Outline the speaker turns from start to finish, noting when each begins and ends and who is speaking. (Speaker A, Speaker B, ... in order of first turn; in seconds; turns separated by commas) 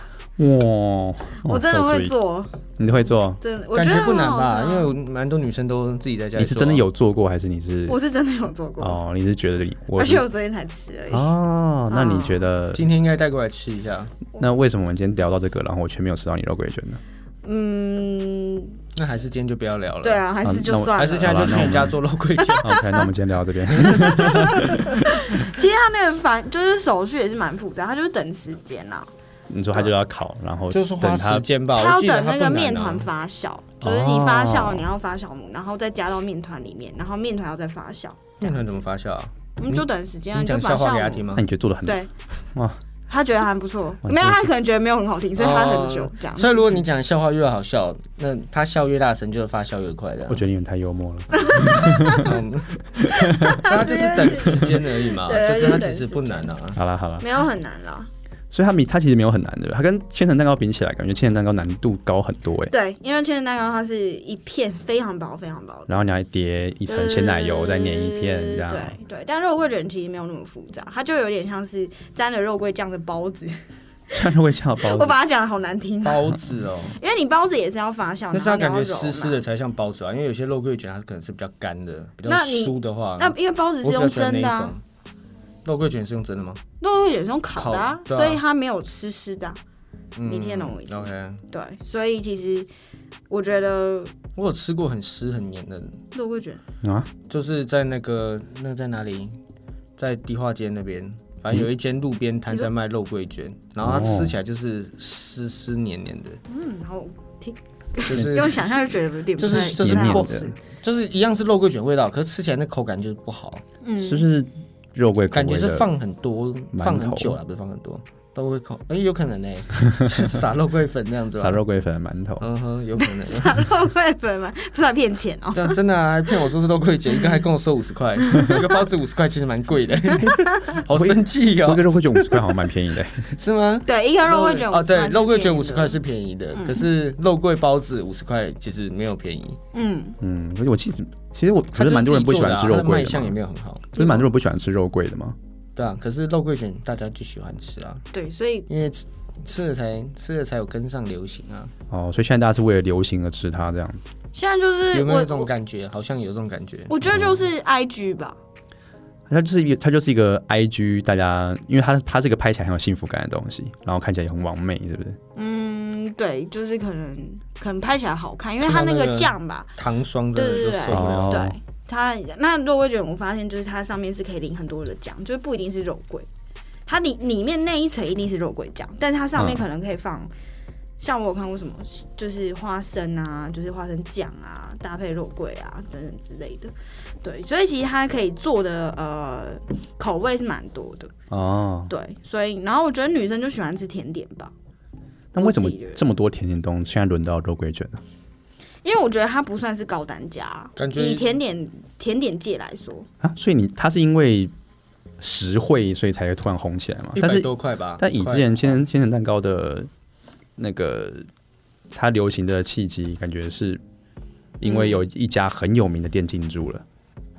Speaker A: 0.4-2.1, Speaker B: 1.4-2.6, Speaker A: 2.8-3.4, Speaker B: 3.4-4.9, Speaker C: 3.7-6.8, Speaker A: 6.4-8.0, Speaker B: 7.9-9.0, Speaker A: 8.8-10.2, Speaker B: 10.0-11.3, Speaker A: 11.1-12.8, Speaker B: 11.9-12.4, Speaker C: 12.7-14.1, Speaker A: 14.4-17.0, Speaker B: 17.4-18.7, Speaker C: 18.9-20.2, Speaker B: 20.0-21.6, Speaker A: 20.4-21.9, Speaker C: 20.9-22.8, Speaker B: 22.4-23.1, Speaker A: 22.6-25.4, Speaker C: 23.8-24.8, Speaker B: 23.8-29.1, Speaker A: 29.5-31.4, Speaker C: 30.7-33.1, Speaker B: 31.8-38.7, Speaker A: 33.8-34.9, Speaker C: 38.4-41.4, Speaker B: 39.6-41.3, Speaker A: 41.4-42.0, Speaker B: 41.9-42.1, Speaker A: 42.5-42.8, Speaker B: 43.1-46.6, Speaker A: 44.0-44.5, Speaker C: 45.4-50.4, Speaker A: 50.3-52.4, Speaker B: 51.3-52.3, Speaker C: 52.1-52.8, Speaker A: 53.0-53.7, Speaker B: 53.1-56.5, Speaker C: 53.6-56.8, Speaker A: 56.8-57.3, Speaker B: 57.2-58.1, Speaker A: 58.5-62.7, Speaker B: 62.7-65.9, Speaker A: 65.9-69.0, Speaker B: 66.9-73.6, Speaker A: 74.1-75.2, Speaker B: 74.8-76.4, Speaker C: 76.0-77.0, Speaker B: 77.0-79.4, Speaker C: 78.3-84.8, Speaker B: 82.2-84.7, Speaker C: 85.6-86.6, Speaker B: 86.8-89.6, Speaker C: 87.6-88.4, Speaker C: 90.2-91.4, Speaker B: 90.2-92.7, Speaker B: 93.3-94.1, Speaker C: 94.4-96.0, Speaker B: 96.1-96.6, Speaker A: 96.8-97.1, Speaker C: 97.3-99.4, Speaker C: 100.0-106.4, Speaker A: 103.8-104.3, Speaker B: 106.5-110.5, Speaker C: 108.1-113.6, Speaker A: 109.5-110.5, Speaker B: 113.8-114.3, Speaker A: 114.0-115.9, Speaker C: 115.3-121.6, Speaker A: 116.7-117.4, Speaker A: 121.4-122.5, Speaker C: 122.4-123.6, Speaker B: 123.1-125.8, Speaker C: 125.5-131.9, Speaker B: 128.2-128.6, Speaker A: 130.2-133.3, Speaker C: 133.4-139.6, Speaker B: 133.9-136.0, Speaker B: 136.5-136.9, Speaker B: 139.7-140.2, Speaker A: 140.2-143.3, Speaker C: 141.7-144.2, Speaker A: 143.9-145.4, Speaker C: 145.8-148.0, Speaker B: 148.1-148.7, Speaker C: 148.7-151.7, Speaker A: 151.9-154.0, Speaker B: 154.3-155.5, Speaker C: 154.9-157.0, Speaker B: 156.9-158.4, Speaker A: 157.1-157.3, Speaker A: 159.3-165.2, Speaker B: 165.4-169.7, Speaker C: 168.6-171.4, Speaker B: 170.3-176.3, Speaker A: 170.9-171.6, Speaker B: 176.9-180.3, Speaker A: 179.4-179.7, Speaker B: 181.0-191.1, Speaker A: 191.3-191.9, Speaker B: 191.9-194.5, Speaker A: 195.3-198.0, Speaker B: 195.4-196.0, Speaker B: 198.8-203.1, Speaker C: 200.8-201.3, Speaker A: 203.2-204.5, Speaker A: 205.2-209.9, Speaker C: 207.2-208.8, Speaker A: 210.6-211.3, Speaker A: 211.9-213.8, Speaker A: 214.6-216.8, Speaker B: 214.6-215.0